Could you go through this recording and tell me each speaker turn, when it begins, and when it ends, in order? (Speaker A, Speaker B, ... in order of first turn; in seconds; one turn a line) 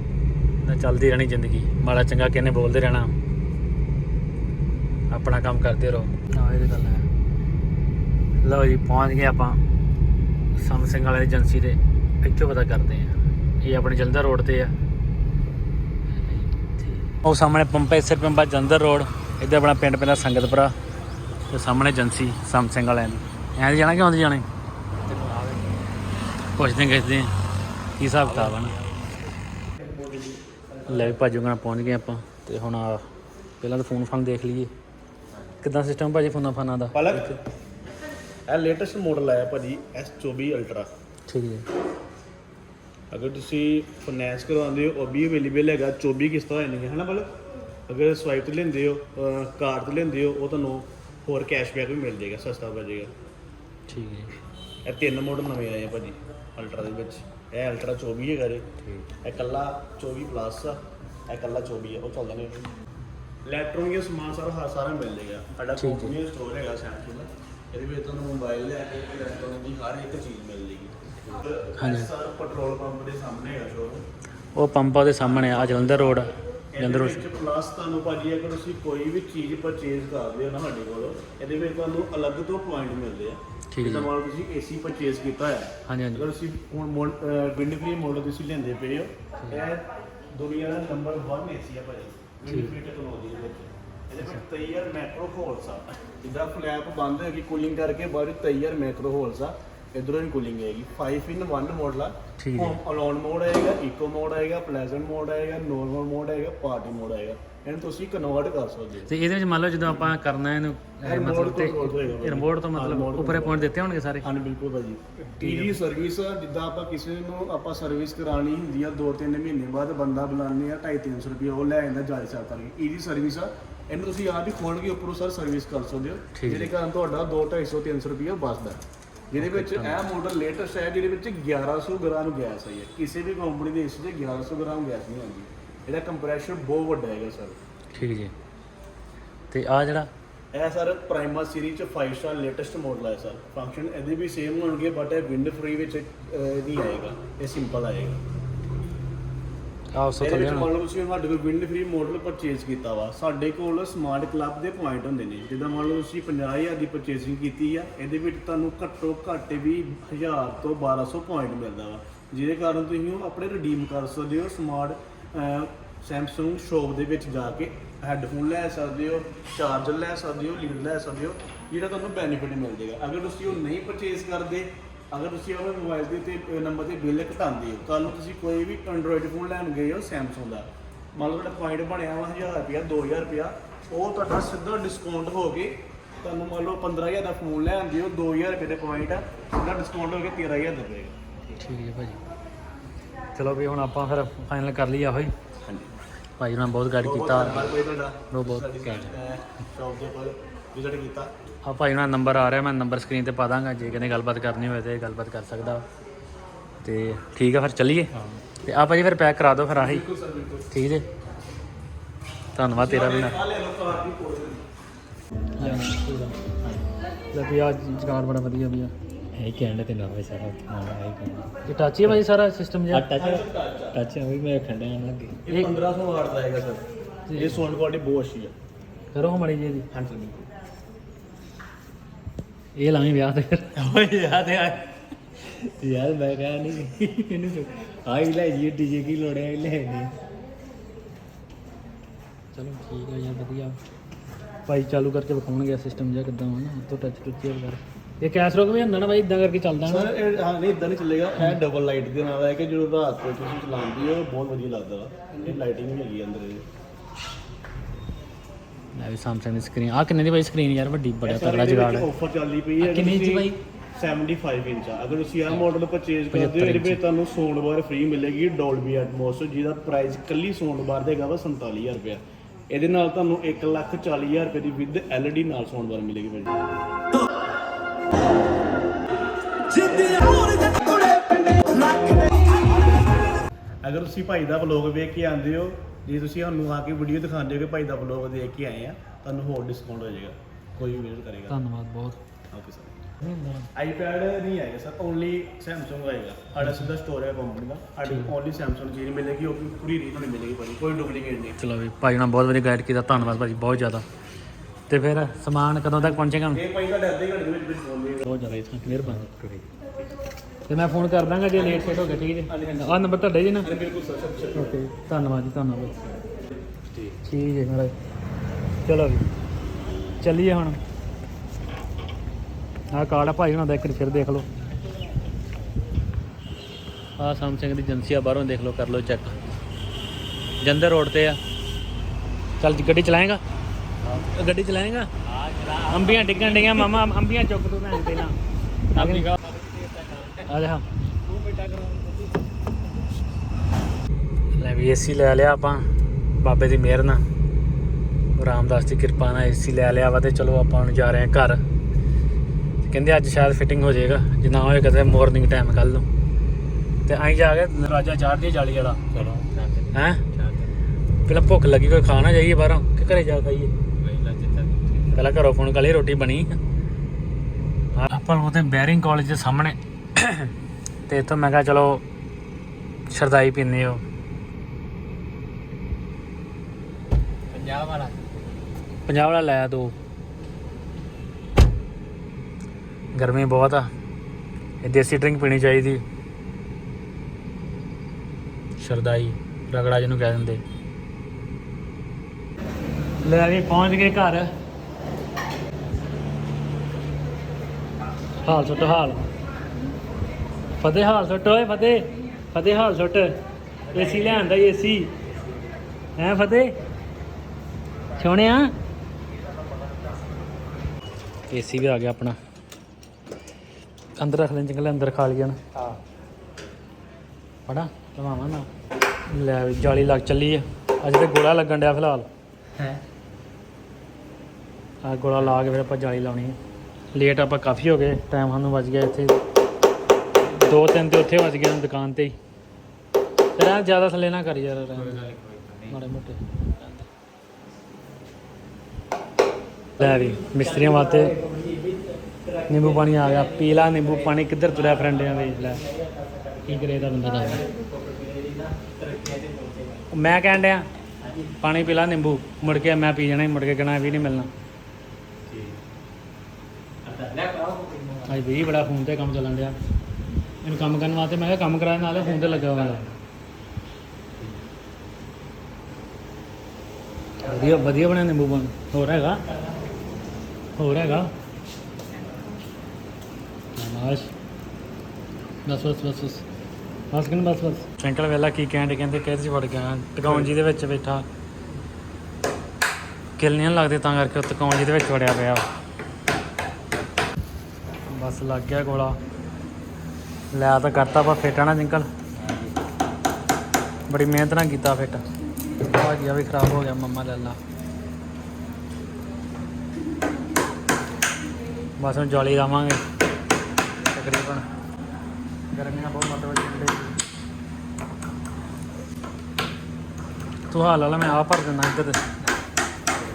Speaker A: 0.6-3.1
Speaker A: 5.1-7.0
Speaker A: 8.4-9.6
Speaker A: 10.6-14.7
Speaker A: 16.2-20.7
Speaker A: 21.5-24.4
Speaker B: 25.0-25.9
Speaker A: 26.6-27.3
Speaker A: 28.0-28.7
Speaker B: 28.2-29.1
Speaker B: 29.9-31.2
Speaker A: 30.9-33.0
Speaker A: 33.6-34.7
Speaker A: 35.6-37.4
Speaker C: 36.9-37.3
Speaker C: 38.5-40.9
Speaker A: 41.3-41.7
Speaker C: 43.1-47.3
Speaker C: 47.9-53.1
Speaker A: 53.9-54.3
Speaker C: 54.8-58.7
Speaker C: 59.2-60.8
Speaker C: 61.3-62.7
Speaker C: 63.4-74.0
Speaker A: 65.8-66.1
Speaker A: 71.8-72.1
Speaker A: 74.5-77.3
Speaker C: 75.2-109.1
Speaker A: 83.7-84.1
Speaker A: 85.9-86.3
Speaker A: 92.5-92.7
Speaker A: 102.4-102.8
Speaker A: 109.1-114.2
Speaker C: 111.0-137.6
Speaker A: 115.3-115.8
Speaker A: 126.3-126.7
Speaker A: 129.4-130.0
Speaker A: 137.9-138.3
Speaker A: 139.5-140.1
Speaker C: 140.5-148.2
Speaker A: 149.9-150.7
Speaker C: 150.2-191.1
Speaker A: 191.5-192.2
Speaker A: 193.3-195.3
Speaker C: 195.6-195.9
Speaker A: 196.4-197.7
Speaker C: 197.0-201.3
Speaker A: 198.3-199.1
Speaker A: 201.6-205.8
Speaker A: 206.8-208.1
Speaker B: 208.1-208.4
Speaker A: 208.7-210.0
Speaker C: 209.8-210.7
Speaker A: 210.7-211.0
Speaker A: 212.5-213.4
Speaker C: 212.7-214.7
Speaker A: 215.6-216.3
Speaker B: 215.6-215.9
Speaker A: 217.3-218.9
Speaker B: 219.3-221.5
Speaker A: 221.7-223.1
Speaker B: 222.9-225.4
Speaker C: 223.1-224.0
Speaker C: 225.4-226.8
Speaker C: 227.3-228.5
Speaker A: 229.1-229.9
Speaker C: 229.9-230.4
Speaker A: 232.8-233.7
Speaker B: 233.8-240.1
Speaker A: 242.5-243.8
Speaker A: 244.7-250.1
Speaker C: 249.8-256.6
Speaker A: 258.9-262.1
Speaker C: 261.2-276.6
Speaker B: 262.8-263.6
Speaker A: 266.3-267.0
Speaker C: 279.7-281.9
Speaker C: 283.8-291.6
Speaker A: 291.5-292.2
Speaker C: 292.5-292.9
Speaker A: 293.2-293.7
Speaker C: 293.7-301.6
Speaker A: 296.6-296.9
Speaker A: 298.1-298.3
Speaker A: 301.6-304.0
Speaker A: 304.9-306.6
Speaker C: 306.5-308.2
Speaker A: 308.2-309.2
Speaker B: 308.9-309.7
Speaker A: 310.7-313.7
Speaker C: 311.5-314.8
Speaker A: 314.6-316.0
Speaker A: 317.2-317.9
Speaker A: 318.8-319.2
Speaker A: 320.2-320.8
Speaker A: 322.9-324.5
Speaker A: 327.2-329.4
Speaker A: 330.6-331.4
Speaker A: 332.6-333.4
Speaker B: 334.0-334.3
Speaker A: 334.2-335.1
Speaker B: 335.2-336.9
Speaker A: 335.9-338.4
Speaker B: 338.9-340.5
Speaker A: 338.9-339.3
Speaker A: 340.5-340.8
Speaker B: 341.3-342.2
Speaker A: 344.6-347.2
Speaker A: 348.4-351.6
Speaker A: 352.8-356.1
Speaker A: 357.1-359.0
Speaker B: 359.1-360.7
Speaker A: 359.9-360.2
Speaker A: 361.2-363.7
Speaker B: 364.0-365.3
Speaker A: 365.1-366.6
Speaker A: 367.9-370.5
Speaker A: 371.1-372.0
Speaker A: 373.1-374.0
Speaker B: 377.5-378.2
Speaker A: 379.1-379.9
Speaker A: 383.1-383.9
Speaker A: 384.8-386.0
Speaker A: 388.8-390.6
Speaker A: 393.2-394.5
Speaker A: 398.4-399.2
Speaker A: 400.8-403.3
Speaker B: 403.9-404.5
Speaker A: 403.9-405.1
Speaker B: 405.2-405.8
Speaker A: 406.2-406.7
Speaker A: 408.2-408.7
Speaker A: 411.5-412.4
Speaker A: 414.2-415.6
Speaker B: 415.7-416.0
Speaker A: 417.7-418.7
Speaker A: 419.3-422.3
Speaker A: 425.0-426.6
Speaker A: 427.1-429.4
Speaker A: 430.5-432.3
Speaker A: 433.6-435.2
Speaker B: 434.9-436.0
Speaker A: 435.9-437.1
Speaker A: 440.0-441.3
Speaker B: 440.0-450.1
Speaker A: 442.7-445.8
Speaker A: 446.6-447.6
Speaker A: 450.1-450.9
Speaker B: 451.2-451.6
Speaker A: 451.6-454.5
Speaker B: 455.5-455.8
Speaker B: 457.0-458.5
Speaker A: 458.3-459.7
Speaker A: 460.6-463.1
Speaker B: 462.1-463.1
Speaker B: 467.4-468.0
Speaker A: 467.4-469.4
Speaker B: 469.4-470.0
Speaker A: 470.8-471.3
Speaker A: 473.8-474.3
Speaker A: 475.6-476.4
Speaker A: 477.1-481.2
Speaker A: 483.4-485.6
Speaker A: 488.1-489.2
Speaker A: 490.5-492.1
Speaker B: 492.4-492.8
Speaker A: 494.1-495.2
Speaker A: 495.8-497.6
Speaker A: 502.0-503.0
Speaker A: 504.1-504.6
Speaker A: 505.7-507.1
Speaker A: 510.7-512.2